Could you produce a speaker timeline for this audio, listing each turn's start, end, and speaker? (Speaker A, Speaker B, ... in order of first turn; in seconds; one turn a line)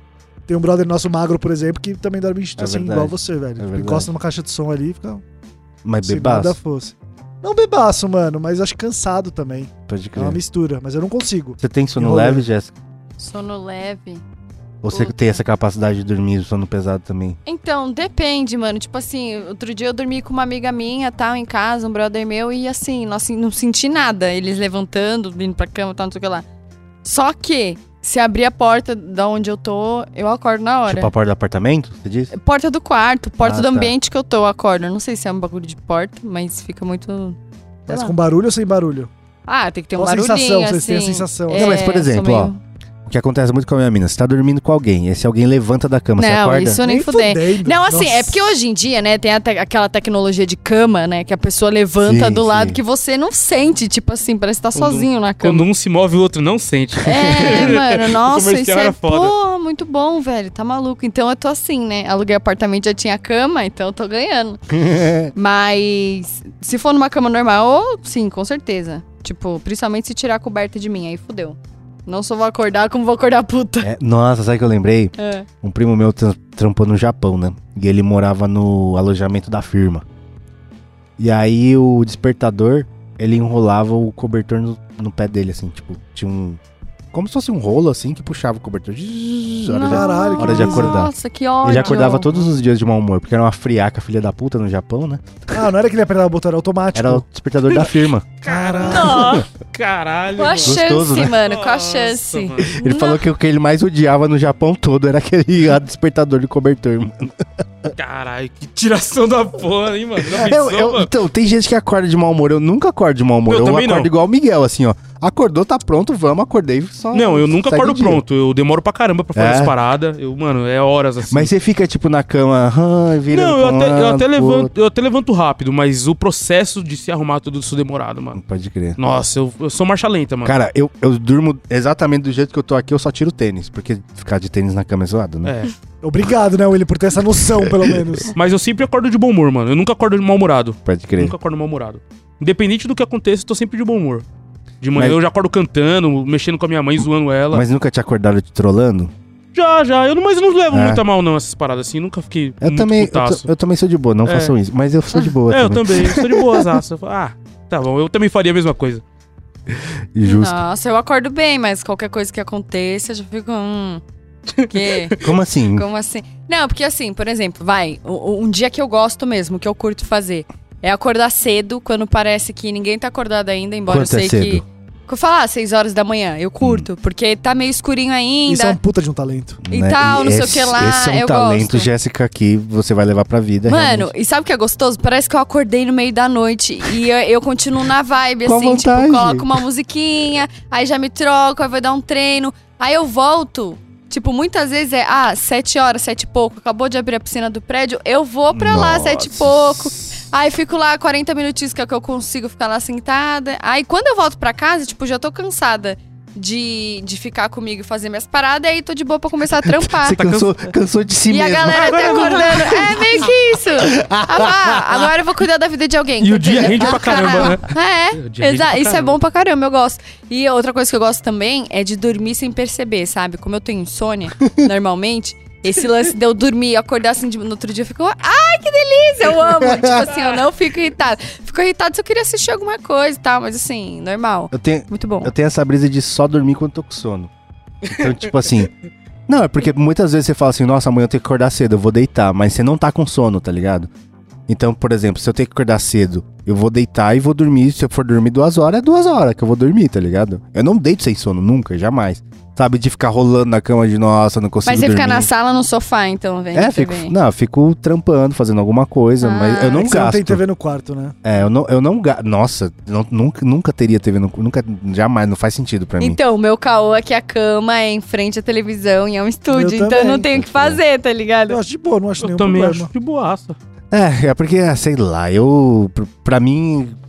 Speaker A: 0.5-5.2
Speaker B: 2.6-4.1
Speaker B: 5.8-6.6
Speaker A: 6.0-12.4
Speaker B: 9.9-10.4
Speaker B: 11.6-12.7
Speaker C: 13.2-14.2
Speaker B: 14.8-17.4
Speaker C: 14.9-15.3
Speaker C: 17.5-26.4
Speaker C: 27.0-31.1
Speaker B: 30.9-32.3
Speaker C: 32.3-38.1
Speaker B: 33.4-33.9
Speaker A: 37.9-39.1
Speaker C: 39.5-42.6
Speaker A: 39.9-41.8
Speaker B: 41.5-42.5
Speaker B: 43.1-46.8
Speaker C: 46.2-55.7
Speaker A: 46.8-48.4
Speaker B: 52.0-52.8
Speaker D: 54.7-59.3
Speaker C: 57.0-64.6
Speaker B: 57.4-57.7
Speaker B: 64.7-65.3
Speaker C: 65.3-73.9
Speaker B: 73.8-80.0
Speaker C: 75.2-75.5
Speaker B: 81.2-86.6
Speaker B: 87.1-91.1
Speaker C: 89.7-92.3
Speaker A: 89.9-91.0
Speaker B: 91.6-95.6
Speaker A: 95.5-97.2
Speaker B: 96.9-98.3
Speaker D: 97.7-102.7
Speaker A: 98.4-99.4
Speaker C: 98.8-99.4
Speaker C: 100.4-103.2
Speaker B: 100.6-101.4
Speaker B: 102.7-107.4
Speaker D: 108.0-111.1
Speaker B: 110.2-118.2
Speaker D: 113.5-114.1
Speaker D: 117.1-121.5
Speaker B: 119.3-119.7
Speaker B: 121.3-124.7
Speaker D: 123.3-128.4
Speaker B: 128.4-129.0
Speaker D: 129.0-130.6
Speaker B: 130.4-135.5
Speaker D: 135.4-135.7
Speaker A: 136.0-138.3
Speaker D: 138.3-144.2
Speaker B: 140.9-141.4
Speaker D: 144.8-147.6
Speaker B: 147.5-149.1
Speaker D: 149.5-153.5
Speaker B: 150.7-151.0
Speaker B: 152.6-156.8
Speaker D: 154.2-154.5
Speaker D: 155.5-159.0
Speaker B: 160.1-160.6
Speaker C: 160.2-164.0
Speaker D: 164.6-165.3
Speaker C: 164.6-165.2
Speaker B: 165.2-165.8
Speaker C: 165.7-178.8
Speaker B: 173.9-174.6
Speaker B: 176.6-176.9
Speaker A: 178.4-179.6
Speaker B: 179.6-184.1
Speaker C: 179.7-181.9
Speaker C: 183.7-210.2
Speaker B: 188.4-189.6
Speaker B: 198.5-200.1
Speaker B: 209.6-212.4
Speaker D: 210.1-210.6
Speaker C: 211.3-235.3
Speaker D: 211.7-213.0
Speaker B: 213.8-214.9
Speaker D: 216.2-219.2
Speaker B: 216.8-217.5
Speaker B: 229.6-230.1
Speaker B: 234.5-237.3
Speaker B: 237.8-238.7
Speaker D: 237.9-238.1
Speaker B: 239.3-243.9
Speaker B: 244.5-255.3
Speaker C: 254.6-257.1
Speaker B: 256.5-260.4
Speaker C: 259.2-259.9
Speaker A: 259.7-261.1
Speaker B: 261.2-266.2
Speaker C: 266.0-271.6
Speaker A: 269.5-270.3
Speaker B: 270.3-270.8
Speaker A: 271.5-272.9
Speaker D: 272.2-273.6
Speaker B: 273.9-277.0